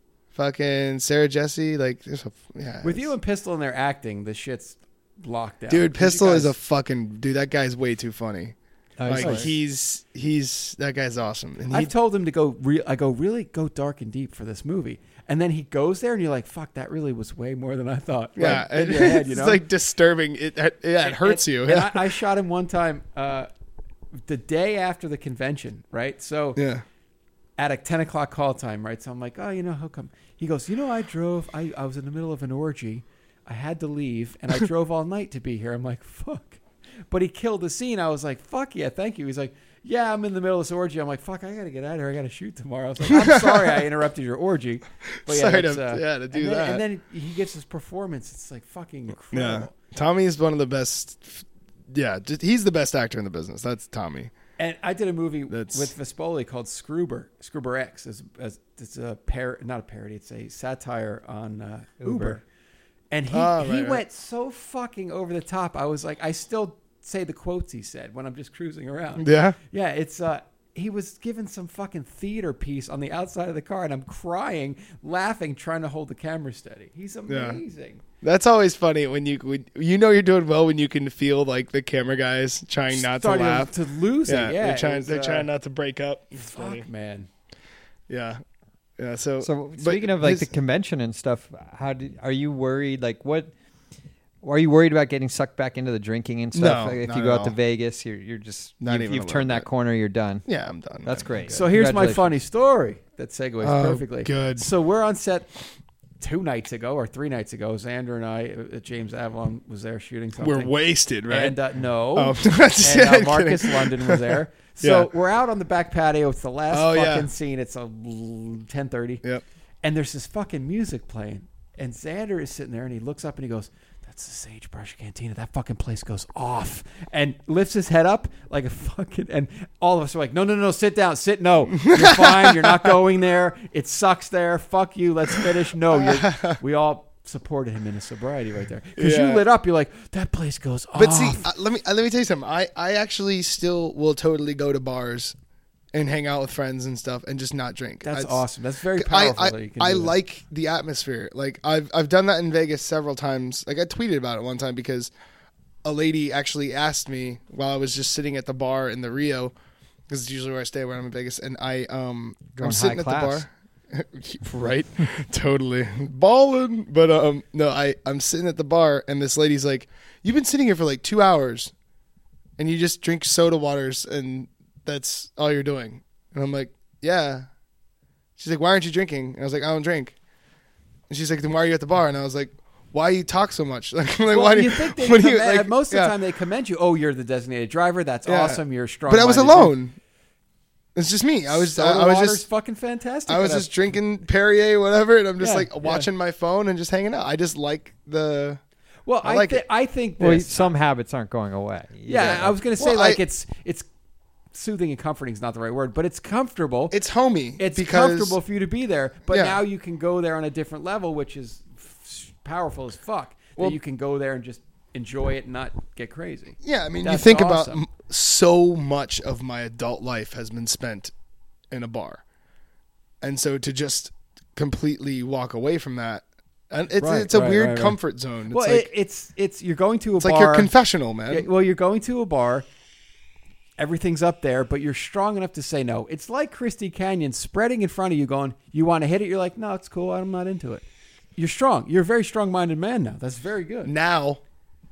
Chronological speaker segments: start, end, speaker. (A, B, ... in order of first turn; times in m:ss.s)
0:00.3-0:03.1 A
0:02.8-0:06.5 B
0:05.7-0:08.5 A
0:09.0-0:09.5 C
0:09.0-0:11.9 A
0:09.2-0:09.5 B
0:11.7-0:19.6 B
0:18.4-0:22.1 A
0:21.0-0:23.5 B
0:24.2-0:26.6 B
0:26.6-0:26.8 A
0:27.6-0:49.7 B
0:43.0-0:43.8 A
0:45.2-0:46.8 A
0:49.3-0:54.3 A
0:54.6-1:02.4 B
0:55.5-0:55.9 A
1:02.0-1:02.4 C
1:03.1-1:18.0 B
1:03.3-1:04.0 A
1:09.2-1:09.6 A
1:17.3-1:17.6 A
1:18.2-1:23.7 A
1:22.9-1:25.5 B
1:24.3-1:26.8 A
1:26.3-1:27.3 B
1:28.1-1:28.4 A
1:29.0-1:30.5 A
1:29.4-1:33.5 C
1:34.4-1:40.4 C
1:36.5-1:37.5 A
1:38.8-1:39.7 A
1:40.4-1:41.7 A
1:41.0-1:42.3 C
1:41.5-1:45.5 B
1:43.6-1:44.7 A
1:46.2-1:50.7 B
1:50.4-1:51.6 A
1:51.3-1:59.2 B
1:52.1-1:55.1 A
1:56.7-1:57.3 A
1:59.8-2:21.4 B
2:11.9-2:12.9 A
2:15.9-2:16.6 A
2:19.0-2:19.4 A
2:20.9-2:25.3 A
2:25.9-2:28.4 A
2:28.0-2:30.2 B
2:29.0-2:35.1 A
2:35.8-2:39.5 A
2:40.1-2:51.7 A
2:42.5-2:43.4 C
2:52.6-2:57.5 A
2:58.4-3:00.2 A
3:01.1-3:06.1 A
3:04.3-3:09.8 B
3:08.2-3:09.9 A
3:10.9-3:12.4 A
3:11.5-3:13.7 B
3:13.3-3:18.6 A
3:15.4-3:16.1 B
3:19.1-3:20.6 B
3:19.2-3:19.6 A
3:20.2-3:22.6 C
3:22.1-3:23.8 B
3:22.8-3:23.2 A
3:24.5-3:26.9 B
3:26.9-3:28.4 A
3:27.6-3:37.8 B
3:29.3-3:29.6 A
3:36.6-3:41.1 A
3:41.7-3:42.2 A
3:43.2-3:48.9 A
3:47.0-3:48.0 B
3:48.5-3:50.7 B
3:50.2-3:51.5 A
3:51.3-3:52.6 B
3:53.8-4:00.8 B
4:01.4-4:03.9 B
4:03.8-4:04.4 A